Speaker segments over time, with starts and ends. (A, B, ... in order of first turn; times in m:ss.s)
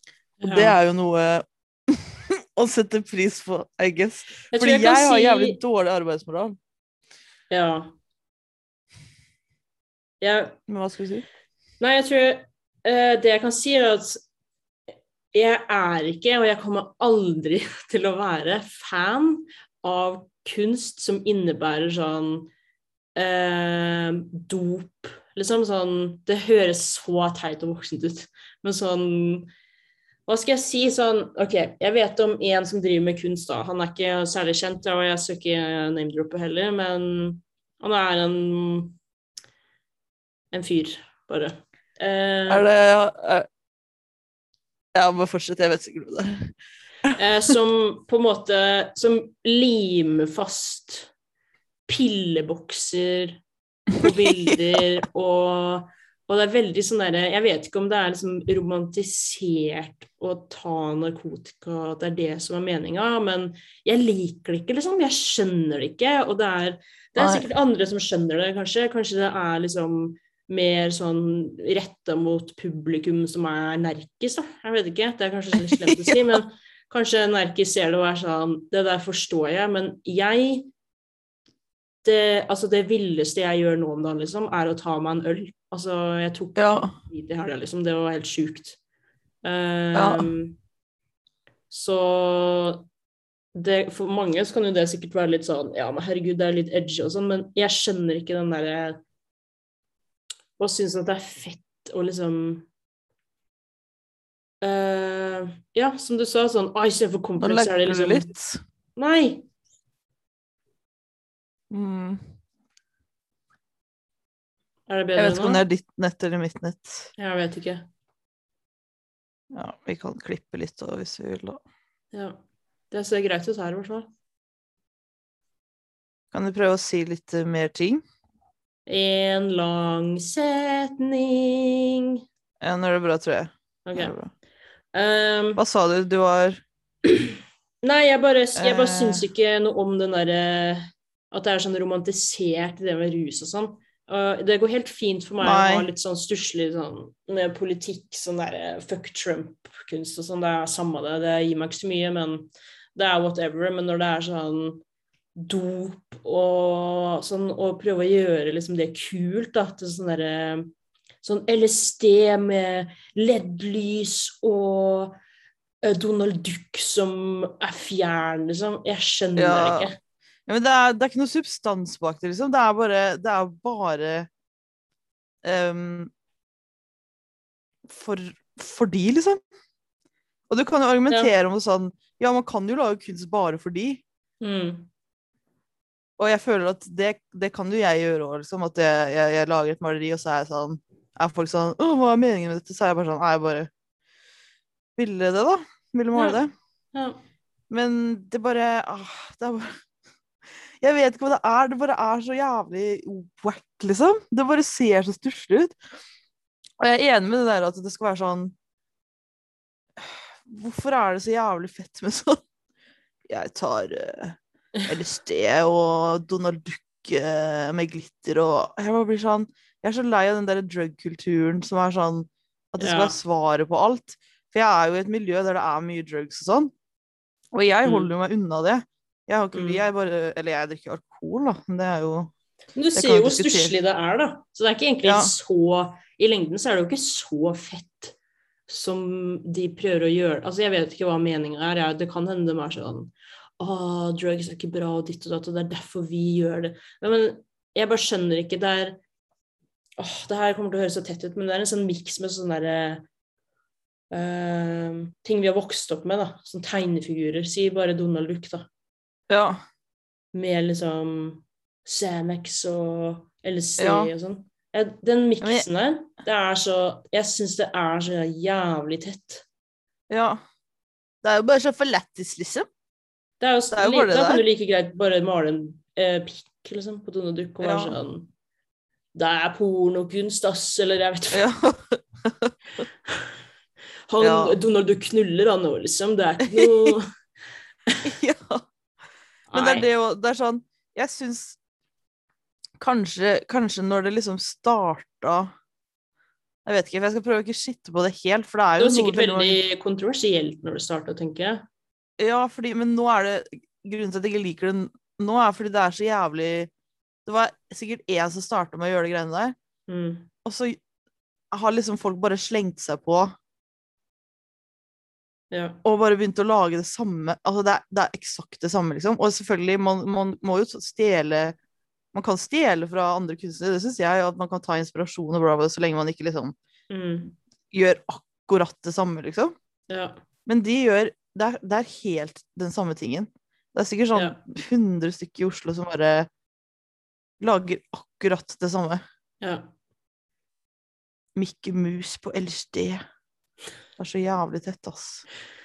0:00.4-0:00.8 A
0:00.4-0:06.6 B
0:04.5-0:05.6 A
0:07.5-0:07.9 A
0:10.2-0:10.6 A
0:10.7-0:11.2 B
0:11.8-0:14.2 A
0:15.3-0:22.5 A
0:23.1-0:29.5 A
0:30.3-0:39.0 A
0:40.5-0:42.6 A
0:42.5-0:43.4 B
0:44.9-0:46.5 B
0:47.1-0:51.1 A
0:51.9-0:53.4 A
0:54.0-1:20.7 A
0:54.0-0:54.5 B
1:07.2-1:07.5 B
1:15.6-1:16.2 B
1:22.0-1:28.8 A
1:26.6-1:27.0 B
1:29.4-1:30.6 A
1:29.9-1:30.3 B
1:31.7-1:32.8 A
1:33.5-1:39.0 A
1:40.6-1:42.7 A
1:44.6-1:48.3 A
1:47.4-1:48.6 B
1:49.0-1:49.4 A
1:51.7-1:52.2 B
1:54.9-1:55.6 A
1:55.2-1:57.1 B
1:57.2-1:57.8 A
1:59.5-2:01.6 B
2:02.1-2:04.1 A
2:06.3-2:08.0 B
2:08.8-2:12.2 A
2:12.6-2:14.3 B
2:13.8-2:14.1 A
2:14.9-2:15.6 A
2:15.6-2:16.6 B
2:17.0-2:34.8 A
2:18.6-2:19.2 B
2:25.4-2:25.9 B
2:35.4-2:40.7 A
2:41.2-2:45.2 A
2:45.8-2:50.0 A
2:49.4-2:49.9 B
2:50.5-2:54.3 B
2:55.4-2:56.1 B
2:57.9-2:59.4 B
3:00.5-3:04.0 B
3:04.4-3:04.9 A
3:06.2-3:13.7 B
3:15.0-3:16.5 B
3:16.1-3:16.4 A
3:16.9-3:17.2 A
3:17.7-3:19.7 B
3:20.8-3:25.7 B
3:26.8-3:28.5 B
3:30.0-3:32.4 B
3:33.3-3:46.7 B
3:42.8-3:43.2 A
3:47.5-3:52.3 B
3:47.8-3:48.1 A
3:49.5-3:49.8 A
3:52.8-3:58.1 A
3:52.9-3:53.7 B
3:55.0-3:55.3 B
3:58.7-4:09.0 A
4:10.0-4:13.0 A
4:14.1-4:18.7 A
4:19.3-4:19.6 B
4:20.3-4:29.4 A
4:23.8-4:24.1 B
4:25.4-4:25.6 B
4:30.1-4:30.4 B
4:31.2-4:32.7 B
4:33.4-4:38.3 A
4:33.7-4:34.4 B
4:37.6-4:38.0 B
4:39.1-4:41.4 A
4:41.3-4:42.8 B
4:44.1-4:47.1 A
4:44.2-4:44.6 B
4:46.4-4:47.0 B
4:48.0-4:48.6 B
4:49.5-4:49.8 A
4:49.5-4:51.6 B
4:52.8-4:55.5 B
4:56.6-4:59.6 B
4:58.8-5:01.6 A
5:02.2-5:06.7 B
5:07.2-5:09.5 B
5:09.9-5:10.3 A
5:10.4-5:10.8 B
5:11.5-5:13.3 B
5:15.5-5:15.8 A
5:15.8-5:21.6 B
5:22.1-5:26.5 B
5:26.9-5:27.3 A
5:27.7-5:29.5 B
5:29.9-5:30.2 A
5:30.4-5:36.3 B
5:34.1-5:34.4 A
5:37.4-5:39.0 B
5:39.4-5:39.7 A
5:41.4-5:43.0 B
5:44.0-5:45.2 B